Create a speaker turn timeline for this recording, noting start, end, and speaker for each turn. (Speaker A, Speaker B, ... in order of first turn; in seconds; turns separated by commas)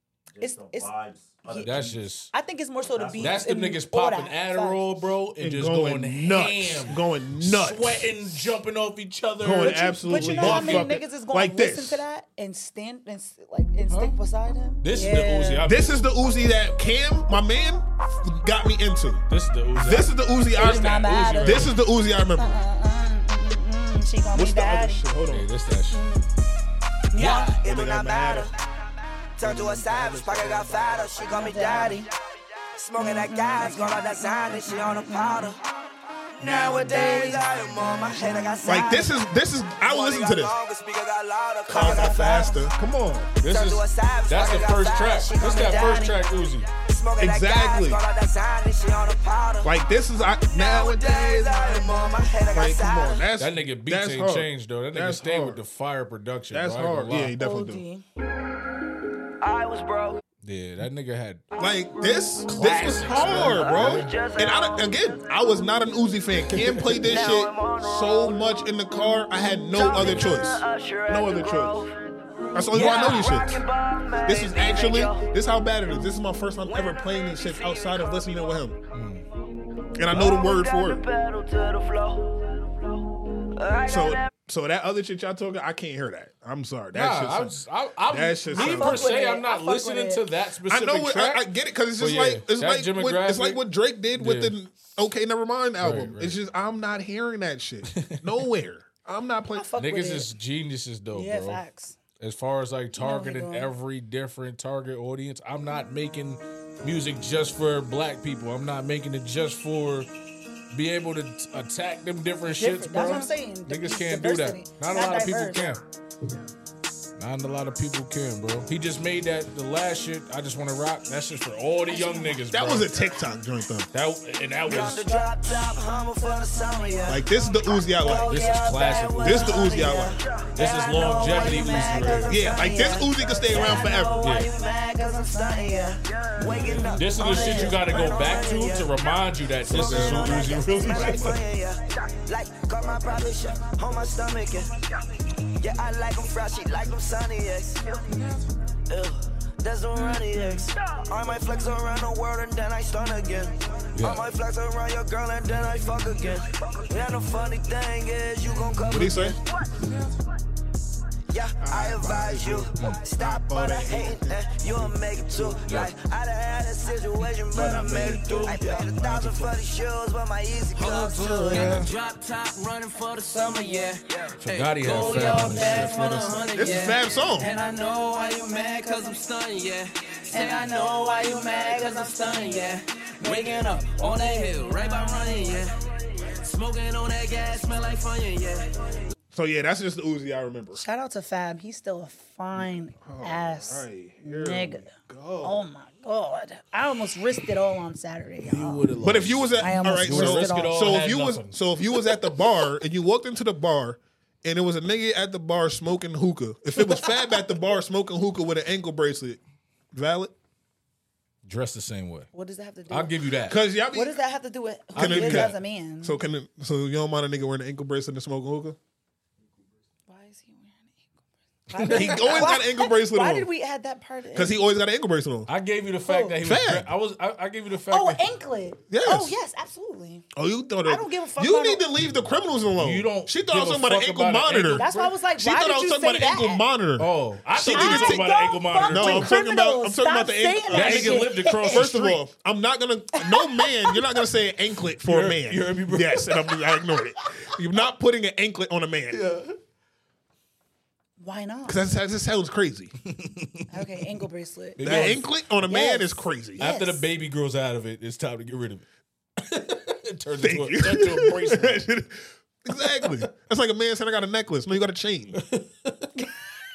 Speaker A: 0.3-2.1, Speaker B: 0.4-0.9, Speaker B: 1.5-1.8, Speaker C: 1.6-2.3, Speaker B: 2.3-4.9, Speaker A: 2.9-3.4, Speaker C: 3.2-11.0, Speaker D: 5.4-8.2, Speaker D: 9.4-12.0, Speaker B: 9.7-15.6, Speaker C: 13.9-14.2, Speaker C: 14.8-16.0, Speaker D: 15.6-19.2, Speaker C: 19.3-21.8, Speaker D: 19.8-22.5, Speaker B: 20.6-21.7, Speaker B: 22.4-25.0, Speaker D: 24.3-25.4, Speaker C: 25.3-26.0, Speaker B: 25.9-26.2, Speaker B: 27.1-27.6, Speaker D: 27.2-28.5, Speaker E: 27.2-28.5, Speaker E: 29.4-32.1, Speaker D: 29.4-31.3, Speaker B: 31.2-32.1, Speaker E: 32.7-35.6, Speaker B: 33.0-35.5, Speaker E: 36.3-39.1, Speaker B: 36.4-39.1, Speaker D: 38.6-40.5, Speaker E: 39.8-42.5, Speaker B: 41.7-42.6, Speaker D: 41.7-43.4, Speaker C: 43.4-46.7, Speaker E: 43.4-46.2, Speaker B: 45.4-46.2, Speaker E: 46.8-49.7, Speaker D: 47.2-48.0, Speaker D: 49.6-55.6, Speaker E: 50.5-53.2, Speaker C: 53.4-57.3, Speaker D: 56.5-57.8, Speaker B: 57.4-58.0, Speaker E: 59.4-60.2, Speaker C: 60.4-61.4, Speaker E: 61.5-65.2, Speaker D: 61.6-71.8, Speaker C: 62.5-64.1, Speaker C: 66.5-67.1, Speaker E: 67.0-68.5, Speaker E: 69.7-71.9, Speaker C: 69.9-70.4, Speaker D: 72.5-73.6, Speaker E: 72.7-75.3, Speaker C: 72.7-73.3, Speaker D: 74.2-78.8, Speaker E: 76.7-78.5, Speaker C: 78.9-79.2, Speaker D: 80.0-81.0, Speaker E: 80.1-83.0, Speaker E: 83.5-84.3, Speaker D: 83.9-87.5, Speaker C: 86.9-91.4, Speaker D: 88.1-89.1, Speaker B: 88.5-90.2, Speaker D: 90.7-99.7, Speaker C: 92.0-93.6, Speaker C: 94.2-94.5, Speaker C: 95.8-96.3, Speaker C: 97.9-98.4, Speaker B: 99.5-100.3, Speaker C: 99.8-101.6, Speaker B: 101.1-102.0, Speaker C: 102.2-110.1, Speaker B: 103.0-103.7, Speaker C: 110.7-115.8, Speaker B: 112.6-115.7, Speaker C: 117.2-122.9, Speaker B: 121.9-122.4, Speaker D: 122.5-123.9, Speaker C: 123.9-125.1, Speaker E: 124.6-128.0, Speaker B: 124.7-127.2, Speaker D: 127.1-128.4, Speaker B: 127.9-136.0, Speaker C: 128.2-129.8, Speaker D: 129.2-130.2, Speaker E: 129.7-144.9, Speaker C: 130.6-132.6, Speaker D: 132.2-134.3, Speaker C: 134.2-134.5, Speaker C: 136.4-141.4, Speaker B: 136.7-138.0, Speaker D: 139.7-141.3, Speaker D: 142.8-143.3, Speaker E: 145.6-148.0, Speaker E: 148.9-159.8, Speaker C: 153.9-154.3, Speaker C: 158.5-159.3, Speaker D: 158.9-159.4, Speaker E: 161.3-171.3, Speaker D: 161.6-165.8, Speaker C: 162.8-163.0, Speaker C: 165.5-165.9, Speaker D: 167.5-169.7, Speaker F: 170.8-180.7, Speaker C: 171.4-171.9, Speaker C: 174.4-176.4, Speaker B: 175.0-176.0, Speaker D: 176.4-177.5, Speaker B: 177.4-179.2, Speaker B: 180.3-185.6, Speaker F: 182.2-185.7, Speaker F: 186.4-188.6, Speaker D: 189.3-190.8, Speaker B: 190.7-194.9, Speaker D: 193.0-195.6, Speaker B: 195.4-198.8, Speaker C: 198.4-201.6, Speaker D: 199.0-209.4, Speaker B: 199.6-200.8, Speaker D: 209.9-210.3, Speaker C: 211.4-212.3, Speaker B: 212.3-213.1, Speaker C: 212.9-213.6, Speaker D: 213.5-214.1, Speaker B: 213.9-216.2, Speaker C: 214.9-215.5, Speaker D: 214.9-218.8, Speaker B: 220.1-221.1, Speaker B: 221.7-224.6, Speaker C: 221.8-222.4, Speaker D: 221.8-223.5, Speaker D: 224.3-225.5, Speaker C: 225.5-228.2, Speaker B: 226.1-226.3, Speaker D: 226.4-226.9, Speaker B: 227.9-230.2, Speaker D: 228.9-229.4, Speaker D: 230.3-249.2, Speaker B: 230.8-231.8, Speaker C: 232.8-235.1, Speaker B: 234.8-236.6, Speaker C: 237.0-239.3, Speaker B: 237.7-241.9, Speaker C: 240.7-242.2, Speaker B: 243.2-244.2, Speaker C: 245.0-246.4, Speaker C: 249.1-249.5, Speaker B: 251.2-251.9, Speaker D: 251.7-252.9, Speaker C: 253.1-254.0, Speaker B: 253.7-257.0, Speaker C: 254.8-255.2, Speaker D: 254.8-256.6, Speaker C: 256.6-258.8, Speaker C: 259.4-261.8, Speaker D: 260.4-265.4, Speaker C: 265.4-266.1